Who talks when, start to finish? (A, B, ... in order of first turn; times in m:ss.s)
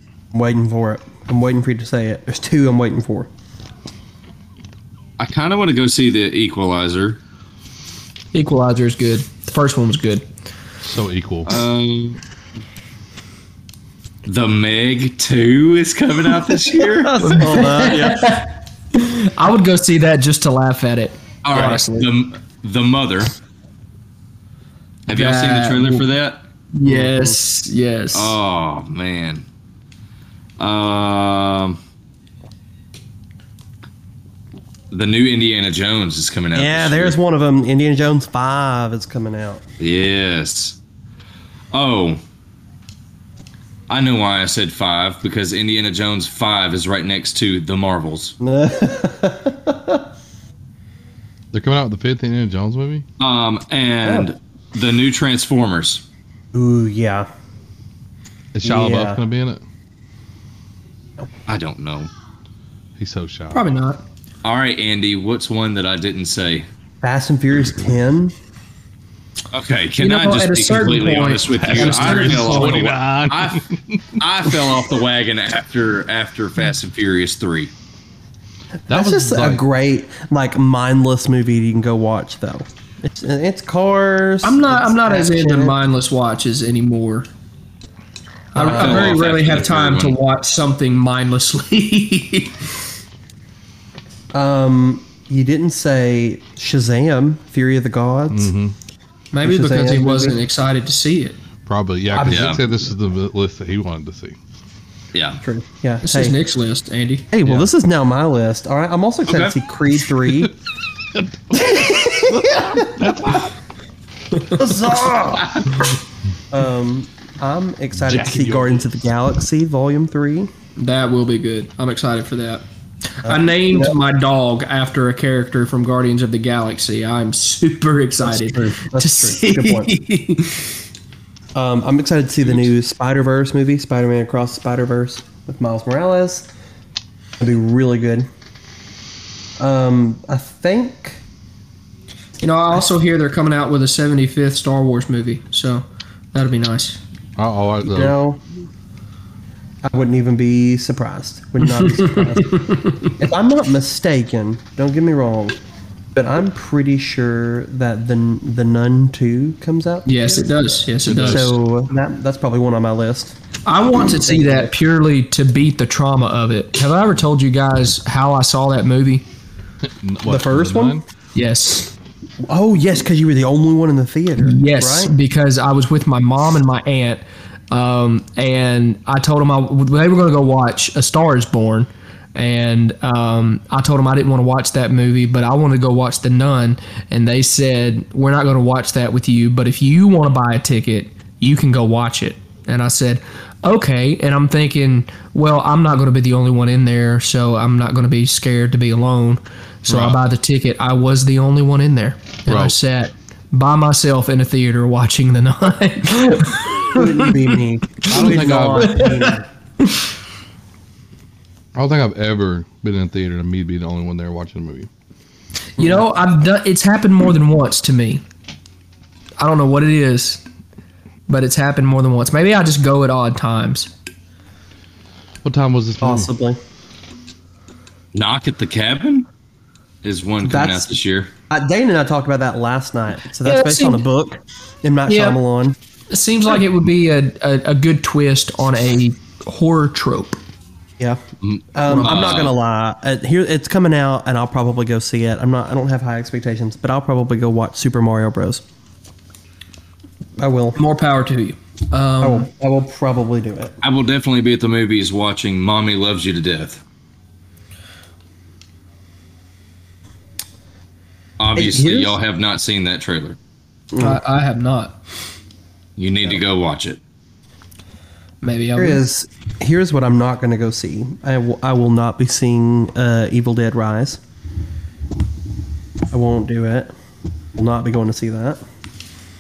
0:00.3-0:03.3 A
0:05.2-0:07.2 B
0:08.3-0:10.3 C
0:10.8-0:11.5 D
0:11.5-0:12.2 B
0:14.2-0:17.6 B
0:16.9-0:18.4 A
0:17.2-0:22.1 C
0:21.4-0:23.3 B
0:25.1-0:26.4 B
0:25.1-0:26.1 C
0:26.7-0:28.4 C
0:26.8-0:27.4 A
0:28.1-0:29.5 B
0:30.6-0:31.8 B
0:34.9-0:37.2 B
0:36.6-0:39.6 A
0:39.8-0:40.8 B
0:41.7-0:42.2 B
0:43.9-0:48.4 B
0:48.4-0:50.0 A
0:51.5-0:53.0 D
0:53.2-0:56.0 B
0:54.0-0:54.3 A
0:56.5-0:57.3 A
0:58.6-0:59.6 D
0:58.6-0:59.2 A
1:01.5-1:02.1 B
1:03.0-1:03.6 D
1:03.5-1:04.0 C
1:04.4-1:06.7 B
1:07.0-1:08.4 A
1:09.5-1:13.6 B
1:10.0-1:12.8 C
1:11.5-1:14.7 D
1:14.2-1:17.7 B
1:18.9-1:19.6 D
1:18.9-1:25.8 A
1:24.4-1:27.3 C
1:28.5-1:32.6 C
1:28.6-1:29.2 A
1:28.6-1:30.2 B
1:34.3-1:38.5 A
1:38.3-1:38.8 D
1:39.3-1:41.4 C
1:39.4-1:40.4 A
1:41.7-1:44.4 D
1:42.1-1:42.8 A
1:42.2-1:42.6 B
1:45.1-1:45.4 B
1:45.4-1:46.4 A
1:46.0-1:47.3 C
1:47.3-1:50.5 A
1:47.4-1:47.7 D
1:49.3-1:49.6 B
1:51.1-1:53.6 D
1:51.6-1:52.9 A
1:54.6-1:55.9 A
1:56.5-2:00.5 A
1:58.0-1:58.9 D
2:00.8-2:02.6 C
2:03.2-2:10.7 C
2:03.3-2:04.0 A
2:08.2-2:10.0 A
2:11.6-2:16.5 A
2:17.4-2:18.3 A
2:19.6-2:21.2 A
2:22.4-2:27.0 C
2:27.4-2:28.2 D
2:27.8-2:28.4 A
2:29.8-2:35.6 A
2:31.7-2:33.2 C
2:36.2-2:43.4 A
2:40.1-2:41.6 C
2:41.1-2:41.6 D
2:43.7-2:49.3 C
2:44.2-2:44.7 A
2:50.0-2:51.0 D
2:50.3-2:51.0 A
2:51.4-2:51.9 C
2:52.5-2:55.1 A
2:54.4-3:27.5 C
3:19.9-3:20.2 D
3:22.5-3:22.8 D
3:26.9-3:29.5 A
3:28.1-3:29.4 C
3:28.1-3:29.1 D
3:31.8-3:34.9 D
3:35.8-3:38.2 C
3:39.4-3:40.4 C
3:41.3-3:43.9 C
3:45.4-3:46.3 D
3:46.0-3:46.6 A
3:48.1-3:49.3 B
3:50.0-3:51.3 B
3:50.4-3:51.0 A
3:51.5-3:55.8 A
3:53.4-3:54.0 C
3:55.1-3:55.4 C
3:56.1-4:00.4 C
4:01.4-4:02.5 B
4:01.7-4:08.6 A
4:01.9-4:02.5 C
4:10.4-4:10.8 A
4:10.8-4:12.5 C
4:12.2-4:13.8 A
4:13.8-4:16.8 B
4:21.4-4:23.4 B
4:21.6-4:22.2 A
4:23.9-4:24.2 A
4:24.0-4:25.0 C
4:26.0-4:27.0 B
4:28.4-4:29.0 C
4:28.8-4:34.2 A
4:36.1-4:36.9 A
4:37.6-4:38.6 A